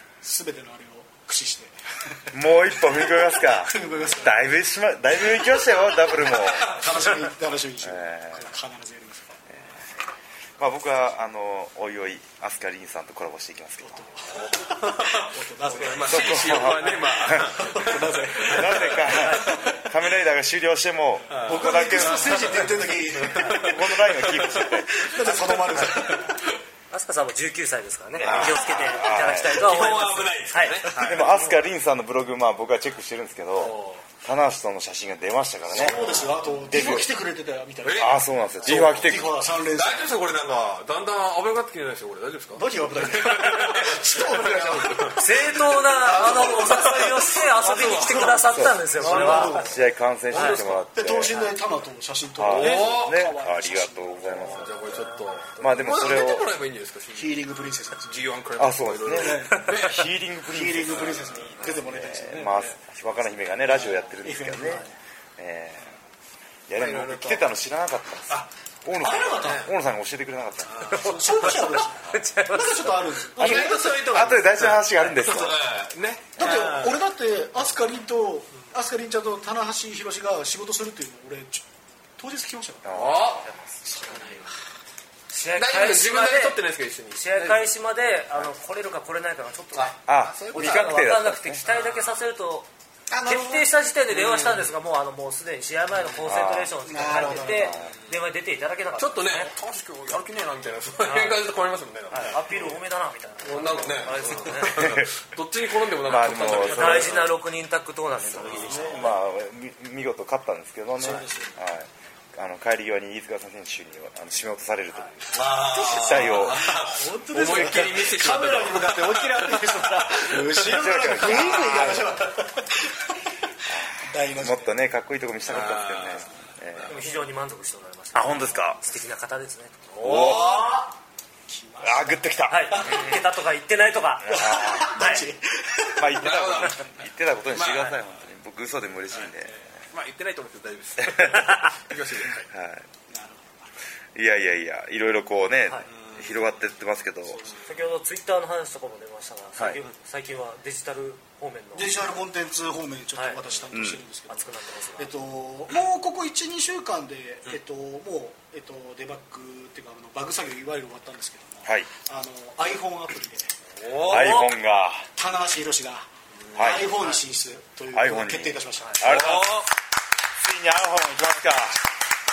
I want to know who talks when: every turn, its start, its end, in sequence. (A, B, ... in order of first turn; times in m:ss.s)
0:00.2-0:04.5 A
0:02.3-0:06.8 B
0:05.3-0:09.4 A
0:06.5-0:07.0 C
0:07.8-0:08.5 B
0:10.6-0:14.1 B
0:13.8-0:19.8 A
0:14.3-0:19.6 C
0:16.0-0:17.6 B
0:18.4-0:22.7 B
0:19.1-0:19.4 D
0:21.3-0:26.5 C
0:21.4-0:23.9 A
0:23.3-0:25.1 B
0:24.7-0:26.4 A
0:26.9-0:31.5 D
0:28.2-0:29.7 B
0:28.2-0:31.4 C
0:30.9-0:36.2 B
0:33.6-0:34.0 C
0:35.7-0:40.1 A
0:35.7-0:36.4 C
0:36.7-0:37.1 B
0:37.8-0:49.7 C
0:37.9-0:39.3 B
0:42.5-0:45.3 A
0:45.1-0:49.7 D
0:46.0-0:49.8 A
0:48.5-0:51.5 B
0:50.3-0:50.9 C
0:50.4-0:54.9 A
0:52.4-0:56.5 B
0:52.4-0:53.3 C
0:54.4-1:00.0 C
0:57.1-0:58.2 A
0:58.6-1:05.9 B
0:59.1-0:59.7 A
1:00.5-1:02.7 A
1:00.8-1:01.6 C
1:03.7-1:04.9 A
1:06.7-1:10.7 B
1:06.7-1:07.5 C
1:09.0-1:09.7 A
1:09.3-1:09.7 C
1:10.7-1:11.7 C
1:10.9-1:13.0 D
1:10.9-1:14.3 A
1:13.4-1:15.6 B
1:13.4-1:17.0 C
1:16.4-1:21.6 A
1:22.2-1:23.2 A
1:22.8-1:23.4 B
1:22.9-1:23.5 C
1:23.4-1:23.8 D
1:23.8-1:24.4 A
1:25.3-1:26.6 D
1:25.6-1:27.7 C
1:27.1-1:30.0 D
1:29.7-1:31.1 C
1:30.0-1:31.6 B
1:30.5-1:32.7 D
1:31.6-1:32.1 C
1:33.1-1:33.7 A
1:33.2-1:39.5 D
1:34.1-1:34.7 C
1:36.2-1:38.0 B
1:36.8-1:37.8 A
1:37.7-1:38.1 C
1:39.0-1:42.8 C
1:41.0-1:41.4 D
1:42.1-1:45.0 D
1:43.4-1:47.3 C
1:44.8-1:45.1 B
1:46.0-1:47.3 B
1:46.6-1:49.2 D
1:48.3-1:58.0 B
1:48.4-1:49.1 C
1:51.0-1:51.6 A
1:55.3-2:01.9 C
1:56.1-2:03.1 A
2:00.6-2:02.2 B
2:03.7-2:07.0 B
2:04.0-2:04.7 A
2:05.5-2:07.1 C
2:06.9-2:09.7 D
2:08.1-2:08.8 B
2:09.9-2:10.7 C
2:10.0-2:10.7 B
2:10.0-2:10.9 A
2:11.5-2:13.2 A
2:11.8-2:13.0 B
2:12.5-2:15.2 D
2:14.2-2:15.2 B
2:14.3-2:16.1 A
2:15.9-2:19.7 B
2:16.1-2:16.9 C
2:17.5-2:18.0 C
2:19.1-2:22.5 C
2:21.0-2:21.7 B
2:22.4-2:22.8 B
2:23.1-2:23.7 A
2:24.1-2:27.5 B
2:25.9-2:26.5 C
2:27.3-2:27.6 C
2:27.6-2:31.9 D
2:31.7-2:43.5 A
2:33.1-2:33.4 D
2:33.7-2:34.0 B
2:34.3-2:35.1 D
2:43.8-2:44.4 C
2:44.0-2:45.1 B
2:44.0-2:44.5 D
2:45.2-2:49.4 A
2:46.4-2:46.9 C
2:46.5-2:47.0 B
2:47.9-2:49.7 B
2:49.0-2:49.7 C
2:50.4-2:51.8 B